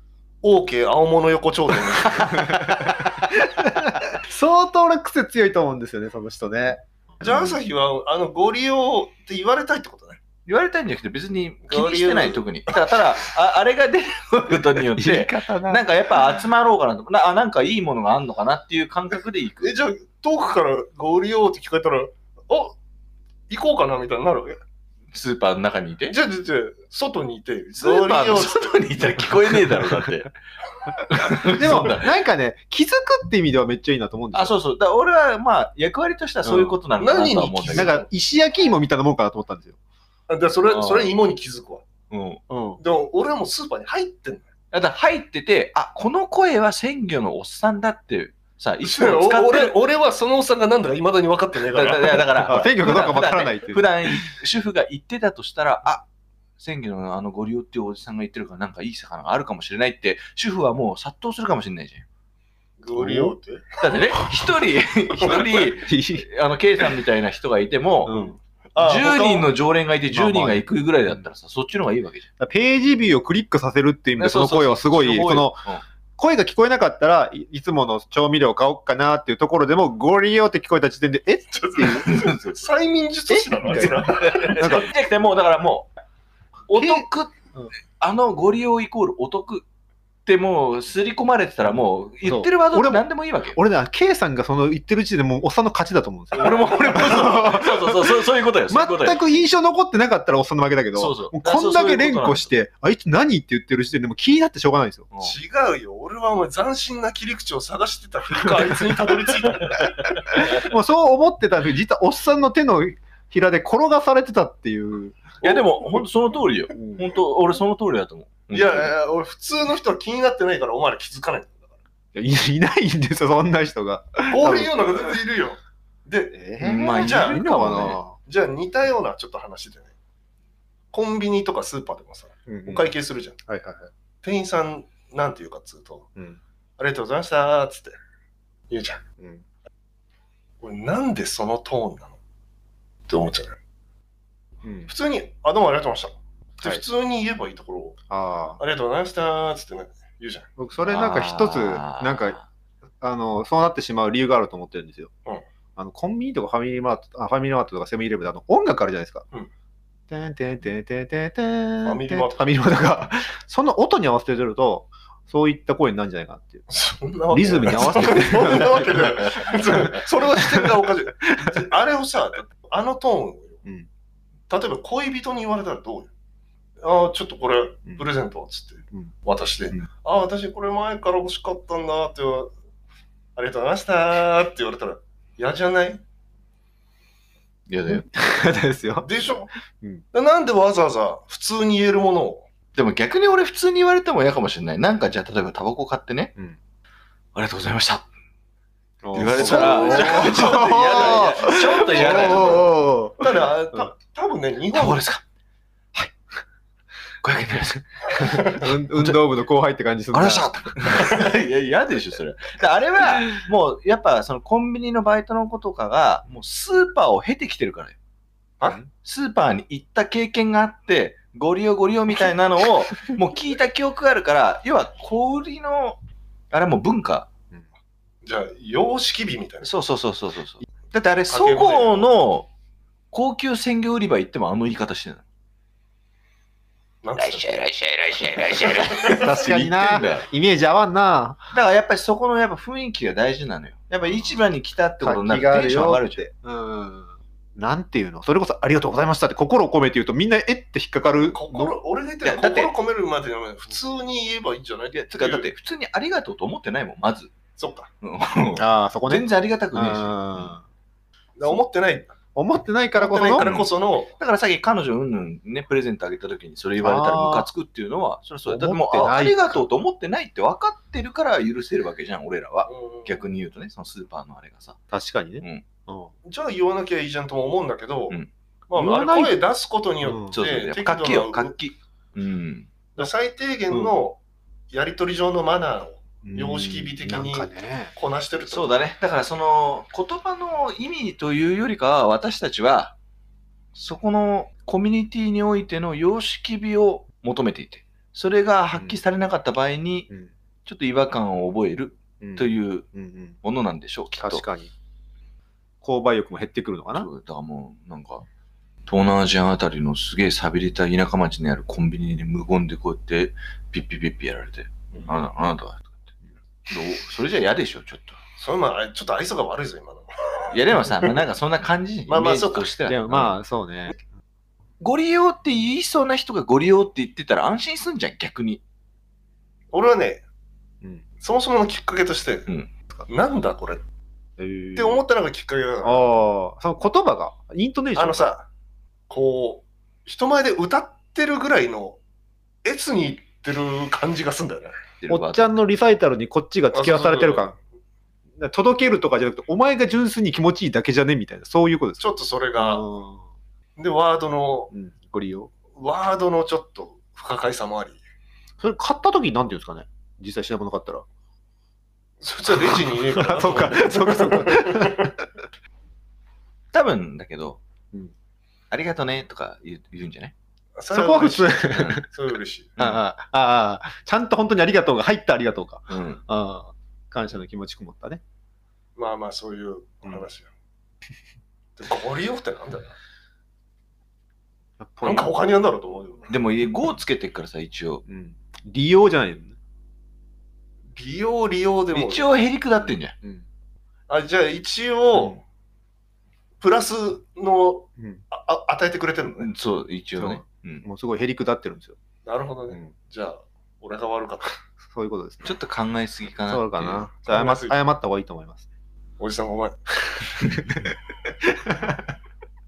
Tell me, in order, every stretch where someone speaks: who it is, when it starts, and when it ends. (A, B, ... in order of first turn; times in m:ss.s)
0:00.4-0:02.4 A
0:02.0-0:03.1 B
0:02.2-0:07.6 C
0:07.2-0:10.2 A
0:10.4-0:19.7 B
0:11.7-0:13.0 A
0:14.9-0:16.1 C
0:19.6-0:22.8 A
0:23.5-0:24.6 A
0:25.1-0:26.2 B
0:26.1-0:28.8 A
0:27.8-0:30.3 B
0:31.1-0:32.1 B
0:31.4-0:34.5 C
0:34.3-0:38.0 B
0:36.4-0:36.8 C
0:37.0-0:38.0 A
0:37.7-0:39.8 C
0:40.3-0:41.8 A
0:40.6-0:41.1 B
0:42.1-0:42.4 B
0:42.5-0:42.8 C
0:42.8-0:44.5 A
0:44.7-0:49.7 B
0:48.8-0:52.4 A
0:51.7-0:56.0 B
0:52.4-0:54.2 C
0:56.6-1:02.0 B
1:02.8-1:03.8 A
1:02.9-1:03.3 C
1:03.8-1:08.1 B
1:05.2-1:05.7 A
1:05.8-1:06.3 C
1:08.0-1:08.4 C
1:08.7-1:09.5 A
1:08.8-1:12.3 B
1:10.1-1:11.2 C
1:12.4-1:15.6 C
1:14.2-1:15.8 B
1:16.2-1:22.1 C
1:21.5-1:24.8 A
1:22.0-1:22.7 B
1:23.3-1:25.9 B
1:23.7-1:24.0 C
1:24.6-1:24.9 C
1:26.7-1:27.3 B
1:26.7-1:27.7 C
1:28.0-1:29.6 B
1:30.2-1:33.6 B
1:32.2-1:45.1 C
1:36.4-1:39.2 B
1:36.4-1:37.0 A
1:41.0-1:42.5 B
1:45.2-1:50.4 A
1:50.3-1:55.3 C
1:55.4-1:56.0 A
1:55.4-1:58.9 B
1:56.7-1:57.1 C
1:58.5-2:01.6 A
2:02.1-2:05.0 C
2:04.3-2:07.4 A
2:06.3-2:08.2 C
2:06.6-2:08.0 B
2:08.1-2:09.9 A
2:10.9-2:13.4 A
2:12.5-2:12.9 C
2:13.5-2:13.9 C
2:14.2-2:16.1 A
2:16.8-2:17.9 A
2:18.7-2:19.0 A
2:20.6-2:22.2 A
2:23.1-2:23.5 A
2:24.6-2:24.9 C
2:24.9-2:28.0 A
2:28.1-2:28.6 C
2:28.6-2:30.5 A
2:30.6-2:32.4 C
2:30.8-2:32.4 B
2:33.0-2:35.1 C
2:35.8-2:39.2 C
2:40.1-2:46.7 C
2:41.8-2:42.5 A
2:46.7-2:53.6 A
2:47.3-2:50.7 C
2:54.5-2:56.1 A
2:56.8-3:02.5 A
3:03.4-3:06.0 A
3:07.7-3:08.0 B
3:07.9-3:09.1 C
3:09.0-3:09.5 A
3:09.7-3:10.0 C
3:10.1-3:12.5 A
3:12.7-3:16.3 B
3:17.3-3:18.0 B
3:19.0-3:23.9 C
3:19.1-3:22.7 B
3:19.1-3:25.1 A
3:24.7-3:25.2 B
3:27.2-3:29.2 B
3:28.1-3:28.6 A
3:28.4-3:30.9 C
3:30.1-3:38.0 B
3:38.6-3:38.9 C
3:39.0-3:46.0 B
3:46.5-3:47.3 B
3:48.2-3:49.7 A
3:49.6-3:52.5 B
3:51.3-3:52.0 A
3:53.1-3:55.2 B
3:57.0-3:57.6 A
3:57.2-4:00.3 B
3:58.7-3:59.2 A
3:59.1-4:01.5 C
4:01.5-4:06.2 B
4:05.0-4:11.7 C
4:11.2-4:15.5 A
4:12.2-4:12.7 B
4:14.9-4:17.3 B
4:17.6-4:17.9 A
4:18.0-4:20.6 B
4:18.6-4:20.6 C
4:21.4-4:22.1 A
4:22.3-4:23.5 C
4:22.9-4:24.1 A
4:23.4-4:34.8 B
4:26.8-4:27.5 C
4:28.4-4:29.7 C
4:32.6-4:33.3 A
4:34.9-4:36.1 C
4:36.2-4:41.5 A
4:38.8-4:39.3 C
4:40.0-4:40.4 C
4:40.3-4:42.7 B
4:43.0-4:48.7 A
4:46.2-4:47.9 C
4:48.5-4:52.9 B
4:53.7-5:00.1 B
5:00.6-5:02.8 B
5:02.2-5:03.4 C
5:03.4-5:04.4 B
5:04.2-5:04.7 C
5:05.8-5:07.1 C
5:06.9-5:08.2 B
5:08.9-5:15.8 B
5:16.7-5:18.2 B
5:18.4-5:21.2 A
5:20.5-5:23.4 B
5:22.1-5:22.7 A
5:22.8-5:24.0 C
5:24.8-5:28.6 B
5:29.7-5:30.2 A
5:31.2-5:32.5 A
5:33.1-5:33.8 A
5:34.4-5:35.0 C
5:34.8-5:36.1 A
5:35.8-5:38.3 C
5:38.0-5:38.5 A
5:39.1-5:42.0 A
5:42.6-5:44.8 A
5:45.0-5:45.5 B
5:45.1-5:47.6 C
5:46.7-5:47.5 A
5:48.4-5:53.2 C
5:52.0-5:52.8 A
5:53.8-5:54.7 A
5:54.7-5:55.5 C
5:55.7-5:58.0 A
5:58.6-6:01.0 C
6:02.2-6:05.1 A
6:02.5-6:05.3 C
6:06.7-6:07.6 B
6:08.7-6:10.3 B
6:10.8-6:12.7 A
6:10.9-6:12.0 C
6:11.7-6:12.0 B
6:12.8-6:13.0 B
6:12.8-6:18.2 C
6:15.9-6:16.2 B
6:19.0-6:20.5 A
6:21.8-6:22.9 A
6:24.8-6:25.3 C
6:25.0-6:26.3 A
6:26.3-6:28.0 B
6:28.1-6:29.5 C
6:31.0-6:32.3 A
6:31.9-6:33.1 B
6:34.1-6:35.4 A
6:35.1-6:35.4 C
6:36.6-6:39.5 A
6:39.4-6:40.8 B
6:40.8-6:42.0 C
6:42.2-6:44.6 A
6:44.8-6:45.6 C
6:45.4-6:47.1 B
6:46.5-6:48.6 C
6:47.2-6:47.8 A
6:49.2-6:49.8 A
6:50.2-6:50.9 C
6:51.4-6:52.0 C